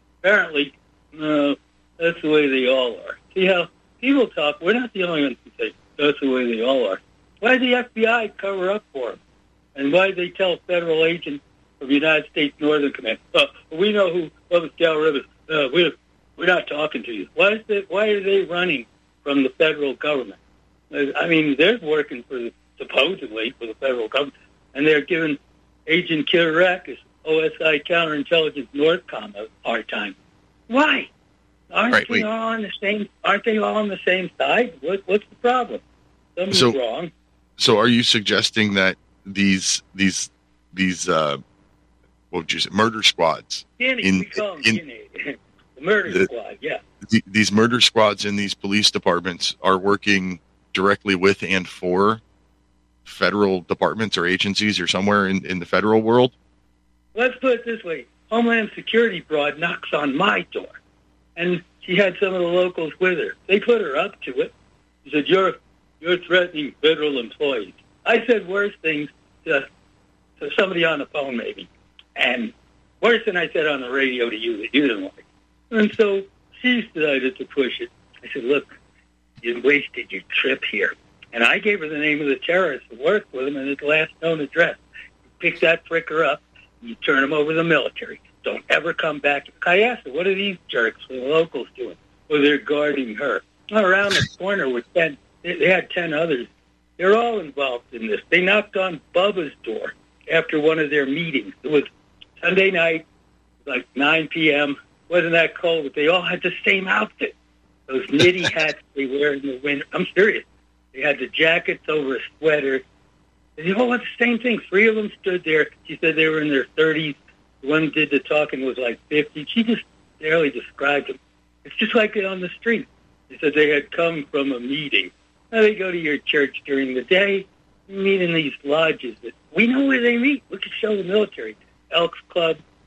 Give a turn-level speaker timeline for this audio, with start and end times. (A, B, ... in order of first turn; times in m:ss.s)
0:00.2-0:09.2 A
0:09.7-0:20.4 A
0:20.9-0:30.1 A
0:30.7-0:31.1 A
0:31.7-0:35.8 A
0:31.9-0:32.2 B
0:36.4-0:37.1 A
0:36.5-0:36.8 B
0:37.6-0:41.4 B
0:42.3-0:44.8 B
0:43.8-0:46.8 A
0:47.0-0:52.2 B
0:53.0-0:56.3 B
0:57.1-1:00.8 A
1:01.4-1:04.5 A
1:05.0-1:09.6 A
1:10.4-1:18.7 A
1:19.4-1:24.8 A
1:25.4-1:41.9 A
1:42.4-1:43.0 A
1:43.6-1:47.3 A
1:47.9-1:52.8 A
1:53.6-2:12.6 A